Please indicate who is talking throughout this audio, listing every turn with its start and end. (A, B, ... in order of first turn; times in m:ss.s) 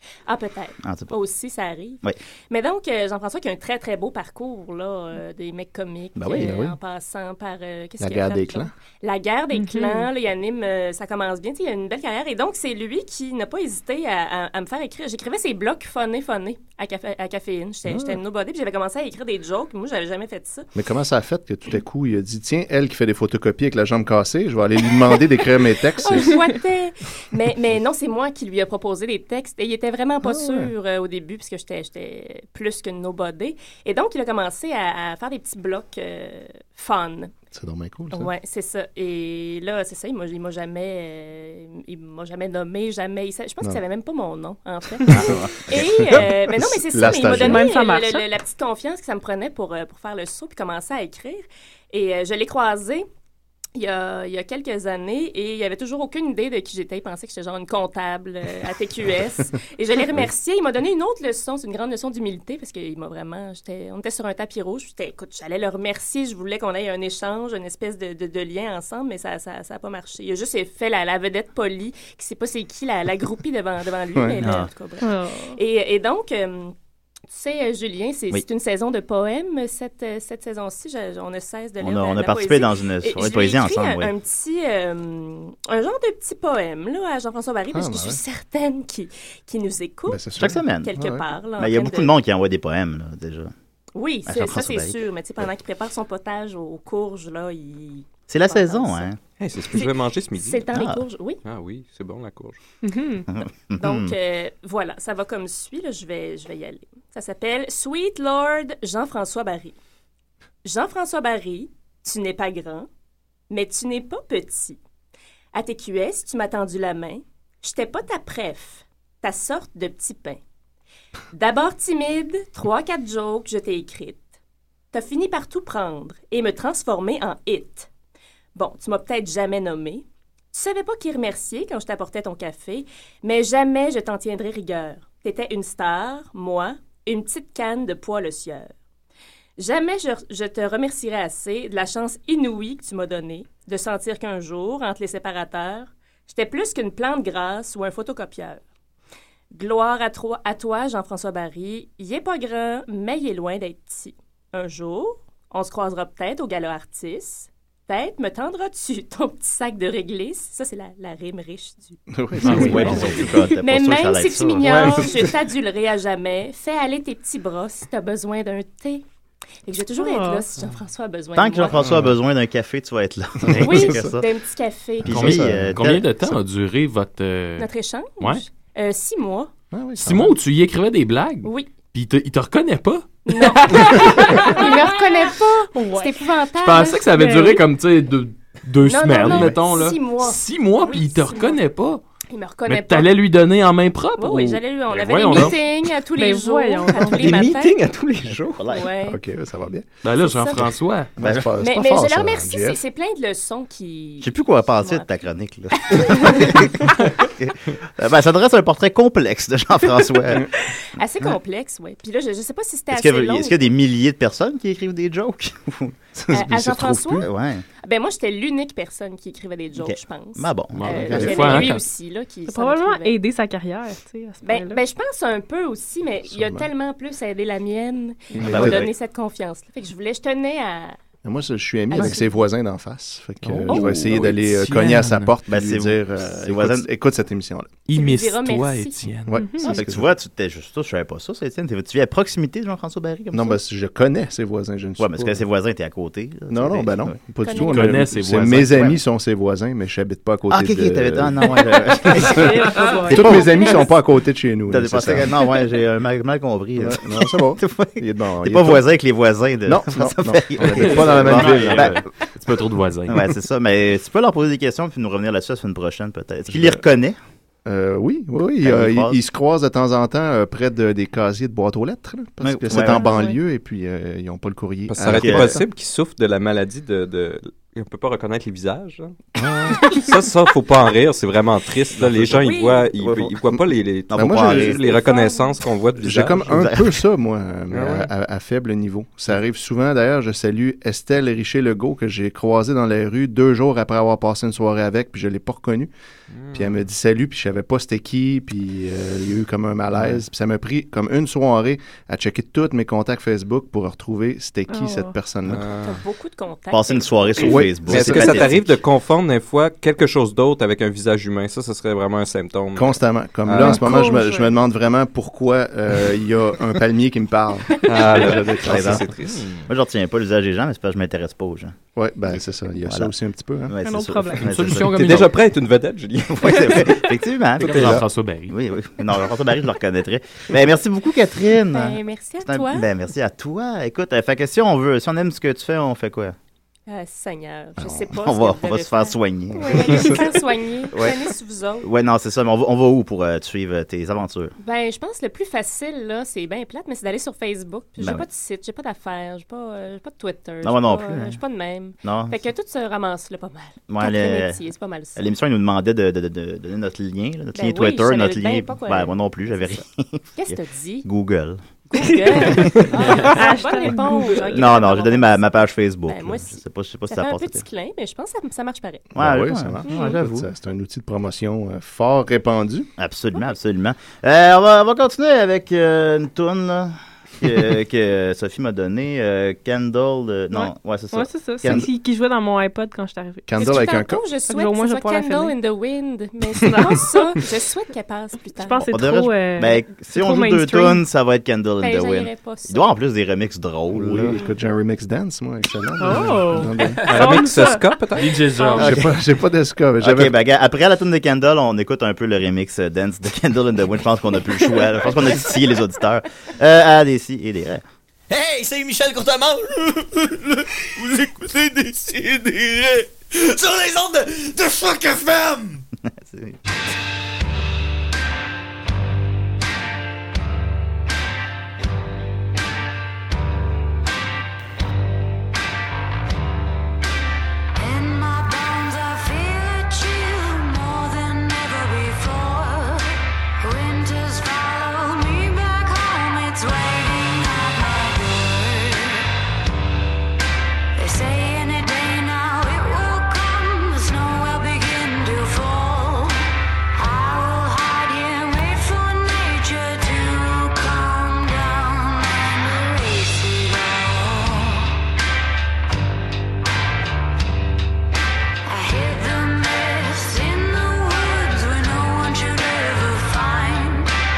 0:00.3-0:20.7 A
0:00.8-0:01.1 B
0:06.2-0:06.6 B
0:06.3-0:06.8 C
0:08.0-0:08.7 C
0:09.5-0:10.1 D
0:17.9-0:18.2 C
0:20.8-0:26.4 C
0:26.0-0:37.3 A
0:30.2-0:30.7 C
0:37.5-0:38.3 C
0:38.1-0:53.1 A
0:45.1-0:45.9 B
0:45.1-0:47.7 C
0:47.3-0:48.3 D
0:53.8-1:16.7 A
1:14.2-1:14.4 C
1:14.4-1:14.7 B
1:15.0-1:15.6 D
1:17.3-1:32.1 A
1:21.8-1:24.1 B
1:27.7-1:28.2 C
1:30.1-1:31.2 C
1:30.4-1:30.9 B
1:31.6-1:33.5 B
1:34.0-1:39.1 A
1:34.3-1:35.0 B
1:38.3-1:39.2 B
1:39.4-1:40.8 E
1:39.7-1:41.4 A
1:40.8-1:41.0 B
1:41.4-1:42.6 E
1:42.8-1:43.3 D
1:43.3-1:44.2 B
1:43.8-1:49.8 A
1:50.6-1:52.9 A
1:53.5-1:54.8 A
1:55.5-2:00.4 A
2:01.3-2:04.2 A
2:04.9-2:07.9 A
2:08.6-2:18.7 A
2:19.6-2:28.6 A
2:29.5-2:49.0 A
2:42.1-2:43.5 C
2:42.4-2:43.1 F
2:42.5-2:45.1 B
2:49.7-2:51.8 A
2:49.9-2:50.4 D
2:51.4-2:54.3 B
2:51.8-2:52.2 C
2:53.4-2:54.1 C
2:53.5-2:53.8 F
2:53.6-2:55.3 A
2:55.0-2:56.1 B
2:55.1-2:55.8 C
2:55.1-2:57.7 F
2:57.6-2:59.5 A
2:59.7-3:00.4 C
3:00.0-3:04.5 F
3:01.4-3:01.7 A
3:03.3-3:07.2 A
3:03.7-3:06.2 D
3:06.6-3:12.0 F
3:07.1-3:07.6 D
3:08.8-3:11.6 A
3:09.2-3:09.6 C
3:12.3-3:13.1 A
3:12.7-3:15.6 F
3:14.2-3:17.8 A
3:16.1-3:17.5 D
3:17.0-3:18.6 E
3:18.6-3:18.9 B
3:18.7-3:19.2 A
3:19.1-3:19.9 C
3:20.0-3:21.1 F
3:20.2-3:20.7 A
3:20.5-3:22.8 C
3:21.2-3:21.5 B
3:21.6-3:25.1 A
3:24.2-3:30.5 B
3:25.8-3:26.9 A
3:30.6-3:33.7 A
3:32.9-3:36.0 B
3:36.2-3:37.3 C
3:36.3-3:37.3 A
3:37.2-3:37.6 B
3:37.8-3:43.2 A
3:39.8-3:41.5 B
3:40.7-3:41.8 F
3:40.9-3:41.7 C
3:42.5-3:44.8 D
3:44.4-3:51.0 A
3:46.3-3:46.7 C
3:48.3-3:48.9 C
3:48.5-3:48.9 B
3:51.2-3:57.7 C
3:52.0-3:52.3 D
3:53.4-3:55.4 F
3:55.5-3:56.9 B
3:57.9-3:59.4 F
3:57.9-3:59.0 A
3:59.3-4:00.1 C
3:59.4-3:59.8 D
3:59.6-4:03.6 B
4:03.3-4:05.4 C
4:05.0-4:07.2 B
4:06.5-4:15.3 C
4:07.4-4:07.8 A
4:07.6-4:08.9 F
4:08.6-4:09.0 B
4:10.5-4:13.7 B
4:12.2-4:13.8 D
4:14.7-4:22.0 B
4:16.8-4:18.9 C
4:19.7-4:22.0 C
4:20.6-4:23.4 F
4:23.1-4:27.2 B
4:26.5-4:26.8 C
4:27.6-4:35.6 C
4:28.6-4:29.2 B
4:32.4-4:33.2 B
4:32.8-4:33.4 D
4:34.9-4:39.2 E
4:35.1-4:35.6 B
4:39.4-4:40.0 C
4:39.8-4:46.5 E
4:42.2-4:43.4 B
4:42.4-4:42.9 A
4:44.1-4:45.0 B
4:44.1-4:44.8 C
4:44.8-4:45.6 A
4:46.0-4:55.9 C
4:46.4-4:47.0 B
4:47.7-4:48.1 E
4:56.3-4:56.6 E
4:56.5-5:05.6 C
5:04.7-5:05.2 D
5:05.5-5:06.0 E
5:05.8-5:07.6 A
5:06.7-5:08.8 B
5:07.4-5:08.5 C
5:07.9-5:13.9 E
5:12.8-5:19.1 C
5:13.6-5:14.5 D
5:17.8-5:19.5 E
5:18.6-5:19.1 B
5:19.7-5:21.8 B
5:22.0-5:23.8 C
5:22.9-5:23.1 B
5:23.7-5:25.3 B
5:23.8-5:24.5 D
5:24.4-5:25.3 F
5:24.9-5:26.9 E
5:26.3-5:36.4 B
5:27.6-5:28.5 F
5:27.6-5:28.0 C
5:31.7-5:32.9 A
5:36.9-5:41.9 A
5:37.9-5:40.3 B
5:40.9-5:41.2 B
5:41.8-5:44.5 B
5:44.6-5:55.3 A
5:48.0-5:48.3 B
5:50.6-5:51.4 B
5:52.0-5:52.4 B
5:53.9-5:54.6 B
5:55.2-6:01.6 B
5:57.5-5:59.8 A
6:00.4-6:01.1 A
6:01.9-6:09.1 A
6:02.0-6:04.7 D
6:02.5-6:02.8 B
6:04.6-6:07.6 B
6:09.1-6:12.9 C
6:09.2-6:10.5 B
6:09.8-6:10.2 A
6:13.0-6:21.9 B
6:20.5-6:25.6 D
6:23.5-6:24.2 C
6:23.6-6:28.9 A
6:26.6-6:27.4 D
6:28.6-6:31.0 D
6:28.9-6:34.4 B
6:31.8-6:32.9 A
6:33.9-6:37.0 C
6:36.0-6:38.9 D
6:37.0-6:37.4 F
6:37.0-6:38.5 E
6:38.2-6:39.0 F
6:38.8-6:40.4 C
6:38.8-6:39.1 B
6:40.0-6:47.8 B
6:48.3-6:55.8 G
6:56.2-6:56.6 B
7:07.8-7:19.3 H
7:21.0-7:35.0 H
7:38.7-7:44.1 H